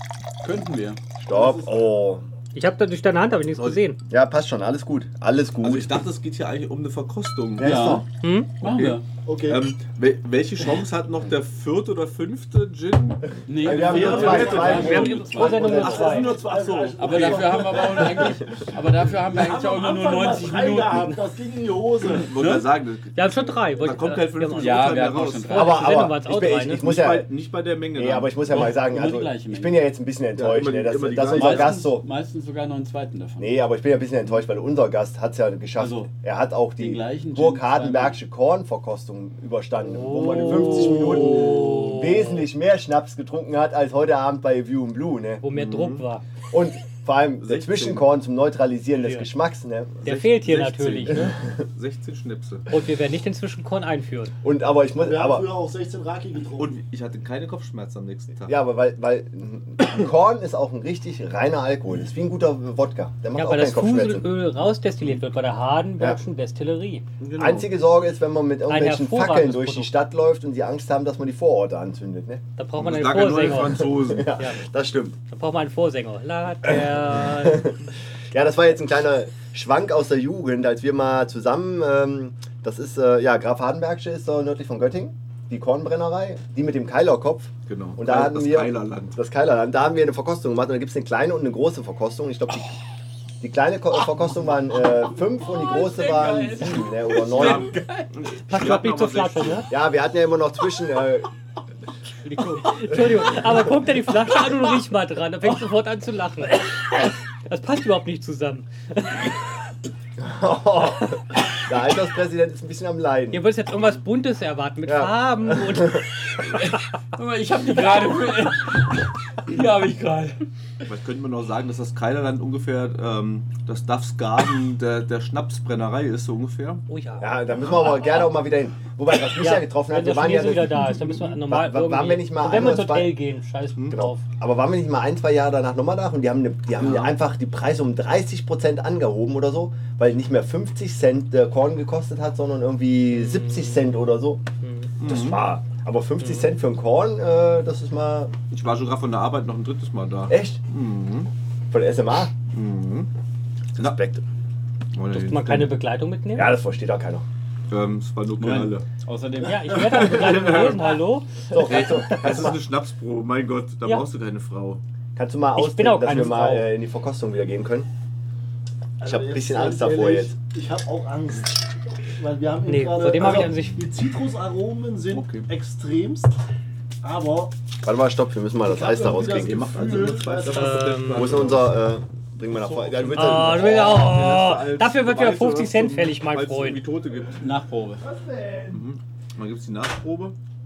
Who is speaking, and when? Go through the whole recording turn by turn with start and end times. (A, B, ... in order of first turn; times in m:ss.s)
0:00.4-0:01.0 A
0:01.2-0:02.2 B
0:01.3-0:01.9 C
0:02.5-0:04.0 D
0:03.6-0:03.8 E
0:04.1-0:06.0 B
0:05.6-0:08.0 E
0:07.6-0:08.0 B
0:07.6-0:08.0 A
0:08.2-0:08.5 D
0:08.6-0:17.5 E
0:08.6-0:09.0 A
0:09.2-0:09.6 C
0:13.5-0:16.0 A
0:13.6-0:22.3 C
0:13.6-0:16.1 B
0:14.7-0:16.5 D
0:17.0-0:21.2 A
0:22.1-0:25.7 E
0:22.3-0:22.7 A
0:23.2-0:24.9 D
0:24.5-0:26.1 A
0:25.5-0:26.8 D
0:25.6-0:27.3 B
0:26.3-0:28.7 E
0:28.0-0:32.0 B
0:28.5-0:29.8 A
0:30.4-0:31.9 E
0:31.3-0:33.5 A
0:33.4-0:45.4 B
0:35.8-0:36.1 A
0:36.8-0:38.2 A
0:39.8-0:42.5 D
0:40.8-0:41.9 E
0:45.4-0:46.2 D
0:45.5-0:46.1 E
0:46.5-0:50.0 B
0:47.4-0:48.1 E
0:49.0-0:49.3 D
0:50.0-0:52.7 E
0:50.0-0:51.4 D
0:52.7-0:54.3 D
0:54.4-0:55.5 B
0:55.0-0:56.8 C
0:56.6-0:58.5 E
0:58.4-1:04.3 B
1:03.4-1:07.0 D
1:07.2-1:07.7 E
1:07.4-1:12.4 B
1:08.7-1:09.9 D
1:12.6-1:14.6 D
1:12.8-1:14.3 E
1:14.0-1:15.2 B
1:15.3-1:17.8 D
1:16.6-1:17.8 B
1:18.3-1:32.8 B
1:27.7-1:29.2 E
1:33.4-1:37.8 B
1:35.4-1:38.1 A
1:38.1-1:39.7 E
1:38.5-1:39.7 D
1:39.7-1:41.3 B
1:42.2-1:49.4 D
1:50.2-1:53.4 B
1:53.3-1:56.1 D
1:54.8-1:56.0 B
1:56.6-2:00.4 A
2:00.9-2:06.8 E
2:06.9-2:07.4 D
2:07.2-2:13.2 B
2:09.4-2:14.2 D
2:13.9-2:24.4 B
2:16.8-2:17.2 E
2:23.1-2:23.8 D
2:24.6-2:24.9 D
2:25.0-2:25.4 E
2:25.0-2:28.3 B
2:26.2-2:26.5 D
2:28.5-2:31.3 E
2:30.3-2:30.6 B
2:31.7-2:32.3 B
2:32.5-2:33.1 E
2:33.8-2:34.2 B
2:34.9-2:35.8 E
2:35.1-2:36.5 D
2:36.3-2:37.2 B
2:37.7-2:38.9 E
2:38.4-2:40.4 A
2:39.4-2:42.0 D
2:39.7-2:41.0 E
2:41.5-2:42.6 B
2:41.6-2:44.8 E
2:45.2-2:47.9 B
2:45.6-2:46.7 D
2:49.0-2:56.4 C
2:49.0-2:50.3 B
2:52.7-2:53.8 D
2:53.2-2:53.6 E
2:55.1-2:55.5 E
2:57.0-2:57.5 C
2:57.8-2:59.7 B
2:58.6-3:01.0 C
2:59.3-3:01.8 E
3:00.5-3:01.5 D
3:01.1-3:04.1 B
3:02.6-3:07.4 E
3:03.1-3:06.8 D
3:07.4-3:08.0 A
3:08.0-3:08.9 C
3:08.7-3:10.4 E